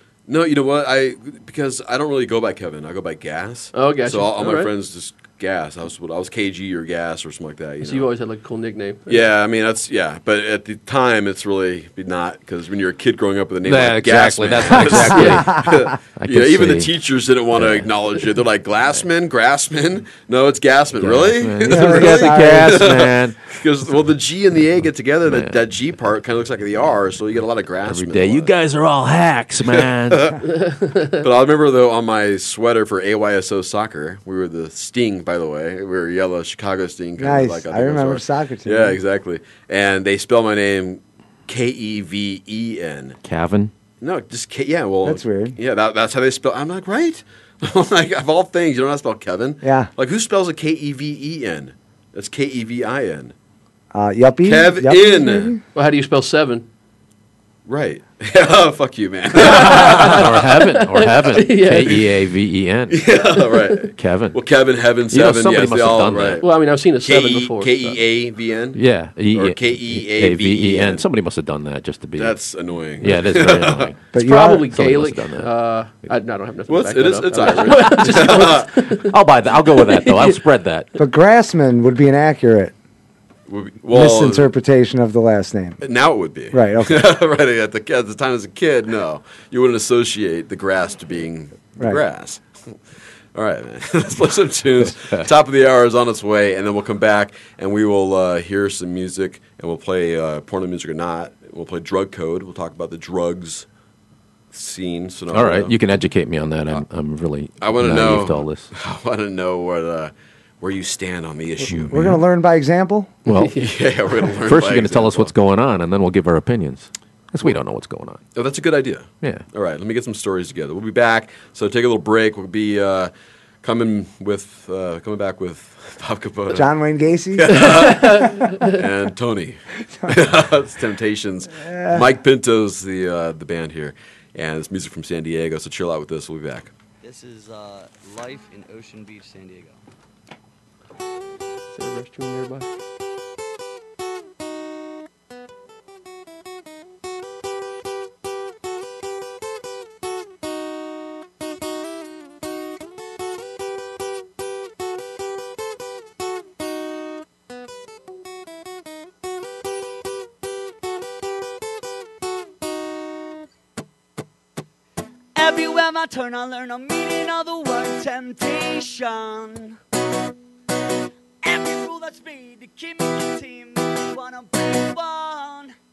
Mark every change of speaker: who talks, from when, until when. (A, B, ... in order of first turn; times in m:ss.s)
0:00.3-0:08.1 A
0:03.7-0:04.7 B
0:07.8-0:09.2 B
0:09.1-0:28.5 A
0:13.6-0:16.9 C
0:15.1-0:15.4 B
0:15.3-0:15.9 D
0:17.5-0:18.2 C
0:21.0-0:23.4 C
0:21.6-0:23.0 D
0:25.2-0:25.6 C
0:27.8-0:30.4 C
0:29.7-0:30.4 A
0:30.5-0:31.2 B
0:31.2-0:43.2 A
0:37.2-0:39.0 D
0:43.2-0:43.7 C
0:44.0-0:53.3 A
0:45.0-0:45.6 D
0:49.6-0:49.9 D
0:53.9-0:55.6 D
0:54.4-0:55.6 A
0:55.7-0:56.6 B
0:57.7-1:00.3 A
0:59.4-1:02.0 B
0:59.5-1:03.0 C
1:02.9-1:11.0 A
1:04.0-1:04.4 C
1:05.1-1:06.4 C
1:06.4-1:08.0 B
1:08.7-1:12.4 C
1:12.2-1:13.9 A
1:13.0-1:14.0 C
1:14.1-1:14.6 D
1:14.2-1:19.1 B
1:14.7-1:15.5 C
1:16.7-1:18.7 A
1:19.0-1:20.9 C
1:19.9-1:20.4 B
1:21.0-1:22.7 D
1:23.5-1:24.5 A
1:23.9-1:25.8 D
1:25.8-1:32.4 A
1:26.5-1:27.1 D
1:33.3-1:43.6 A
1:44.5-1:45.8 A
1:45.3-1:48.7 C
1:47.6-1:52.2 A
1:51.9-1:53.1 D
1:53.3-1:53.5 C
1:53.3-1:53.7 B
1:53.5-1:55.3 A
1:54.4-1:58.2 C
1:58.3-2:06.7 A
2:06.5-2:07.8 D
2:07.4-2:16.7 A
2:07.6-2:08.8 B
2:11.5-2:12.1 D
2:17.0-2:19.8 E
2:21.7-2:22.7 B
2:45.4-2:49.8 F
2:51.4-2:55.7 F